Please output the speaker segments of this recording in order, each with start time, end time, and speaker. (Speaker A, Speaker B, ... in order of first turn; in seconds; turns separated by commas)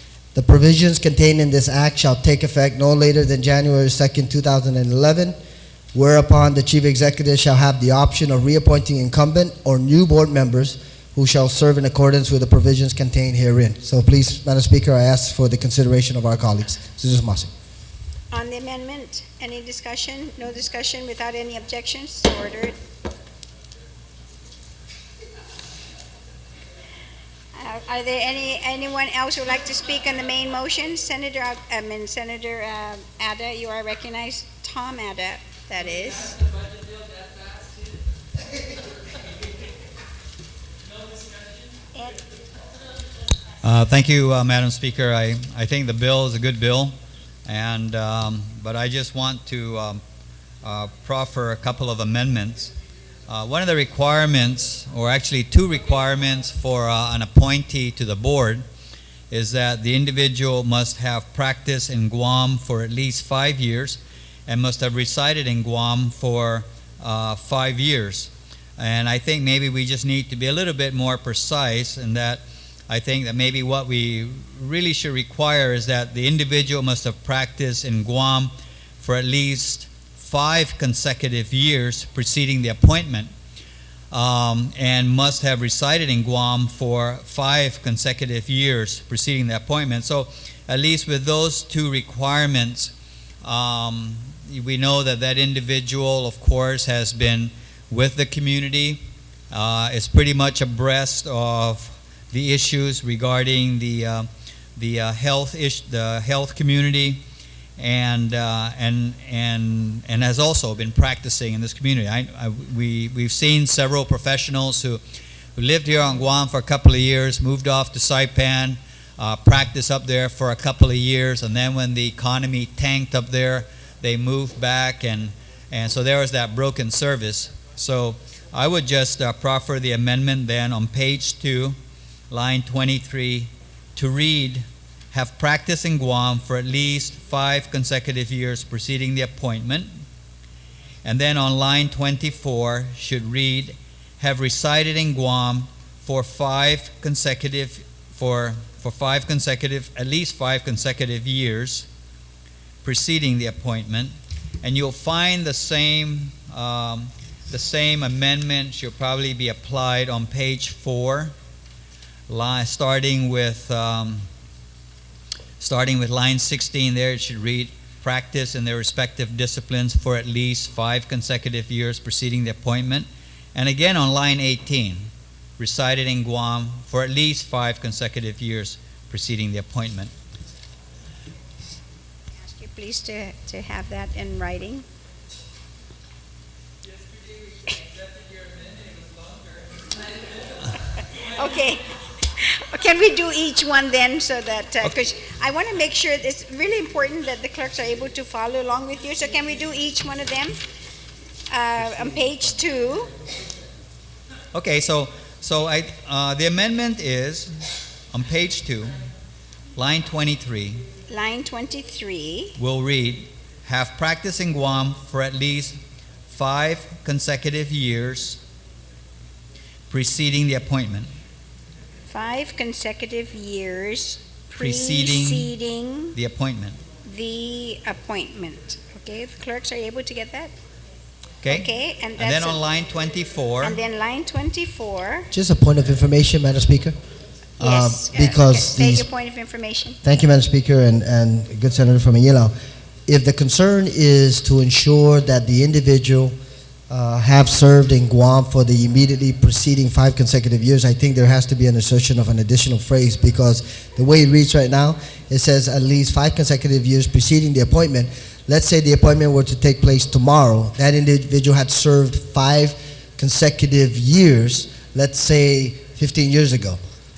Speaker A: 0.3-5.3, Speaker A: 5.9-17.5, Speaker B: 18.3-22.8, Speaker B: 27.6-36.4, Speaker B: 42.0-42.2, Speaker C: 43.6-47.0, Speaker C: 47.5-50.0, Speaker C: 50.6-52.7, Speaker C: 53.3-58.6, Speaker C: 59.3-83.3, Speaker C: 84.1-107.2, Speaker C: 107.8-115.0, Speaker C: 115.6-131.8, Speaker C: 132.3-139.9, Speaker C: 141.0-151.9, Speaker C: 152.8-161.3, Speaker C: 162.3-164.2, Speaker C: 165.6-180.1, Speaker B: 182.4-184.8, Speaker B: 191.2-200.6, Speaker B: 201.5-203.1, Speaker C: 204.5-207.5, Speaker C: 208.1-209.0, Speaker C: 209.8-210.8, Speaker B: 211.1-212.6, Speaker C: 212.6-215.8, Speaker C: 216.3-218.4, Speaker C: 219.9-221.1, Speaker B: 222.1-226.2, Speaker C: 224.6-225.5, Speaker C: 226.1-226.8, Speaker B: 227.1-230.5, Speaker C: 231.4-233.8, Speaker B: 231.5-232.6, Speaker B: 233.6-235.3, Speaker A: 235.3-236.9, Speaker A: 237.6-239.1, Speaker B: 237.6-240.0, Speaker A: 240.0-242.5, Speaker A: 243.1-246.3, Speaker A: 246.9-266.8